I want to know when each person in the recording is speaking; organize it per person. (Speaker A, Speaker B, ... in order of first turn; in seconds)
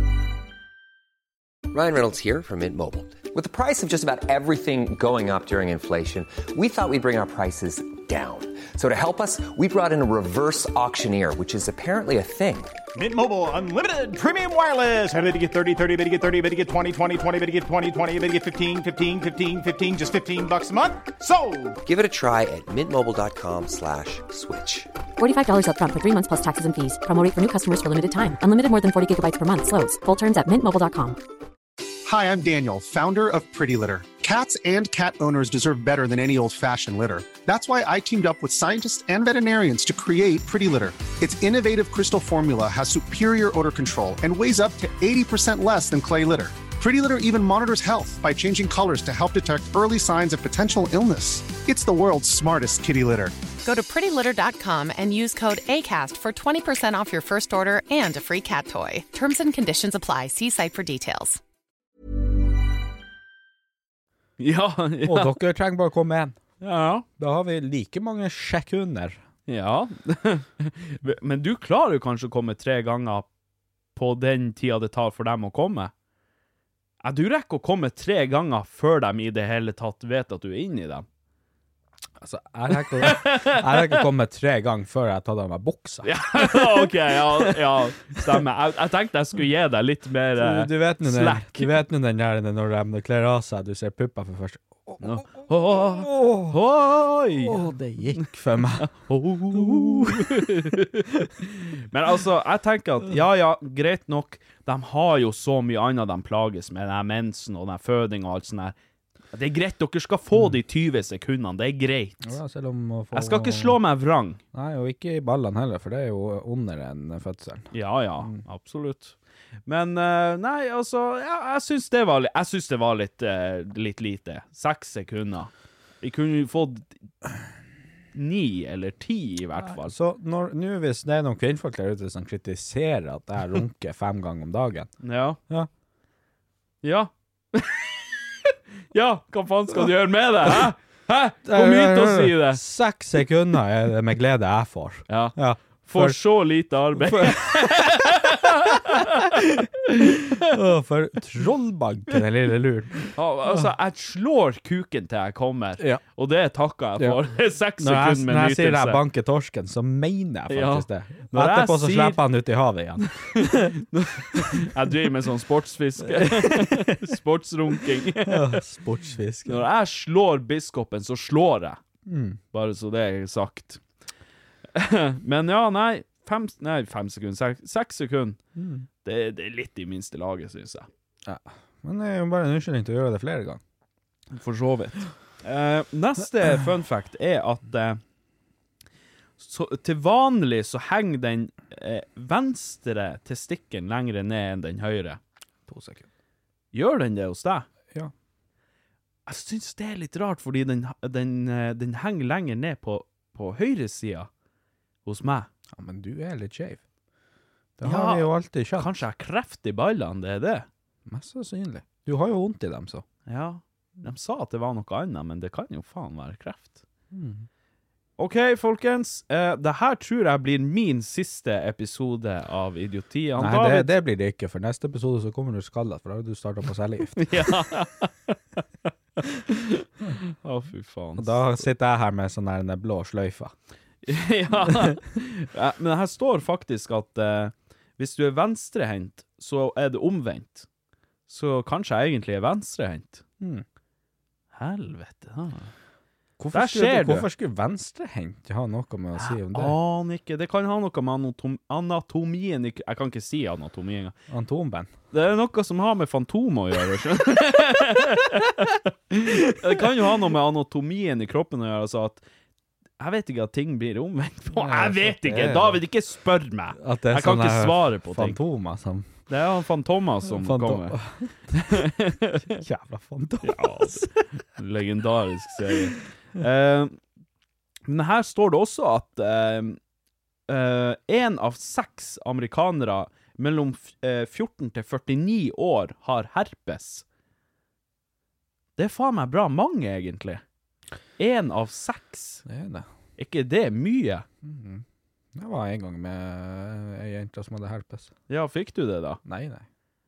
Speaker A: 1.7-12.8, 21.9-24.9
Speaker B: 12.9-21.8
Speaker C: 25.2-31.2
Speaker D: 32.0-53.4
Speaker E: 53.6-61.4
Speaker F: 64.4-65.3, 66.6-67.1, 69.5-73.3, 74.0-75.9, 77.0-81.1, 82.8-84.0, 86.0-91.8, 95.0-97.6, 98.8-108.8, 109.3-112.3, 113.1-114.4, 117.7-119.2, 119.7-125.5, 126.0-126.9, 128.2-129.9, 135.0-135.4, 136.8-142.6, 145.1-149.4, 150.1-150.5, 153.1-159.0, 160.5-162.2, 163.3-168.6, 169.5-171.8, 172.5-173.8, 174.7-178.4, 179.0-180.9, 184.3-188.0, 189.4-195.2, 196.7-197.7, 199.3-204.3, 205.1-205.5, 207.8-210.7, 213.3-216.8, 218.2-224.0, 227.2-228.4, 229.2-231.5, 234.1-240.7, 241.3-243.2, 244.5-245.7, 246.5-247.3, 249.2-254.2, 255.1-262.2, 263.0-268.4, 269.3-271.0, 271.6-272.6, 273.4-277.0, 277.9-279.8, 280.5-287.1, 288.8-290.4, 291.2-292.4, 293.2-294.3, 298.3-299.2
Speaker G: 65.0-66.4, 67.2-69.2, 82.2-87.7, 90.4-95.0, 96.0-96.5, 97.4-98.9, 99.5-100.5, 112.2-113.8, 114.5-118.4, 129.6-134.9, 141.4-146.2, 147.0-148.2, 148.9-153.7, 157.8-163.8, 164.3-164.6, 166.1-167.0, 168.2-169.6, 172.1-172.4, 178.6-178.9, 181.2-183.6, 195.7-196.1, 205.7-206.8, 207.8-209.0, 211.1-213.1, 217.1-217.5, 223.4-227.3, 231.2-233.5, 234.7-234.9, 243.4-243.7, 246.4-249.8, 254.3-254.9, 264.6-265.8, 266.8-269.1, 270.2-271.9, 272.5-274.1, 292.5-292.9, 294.4-294.8, 295.4-298.1, 299.2-299.7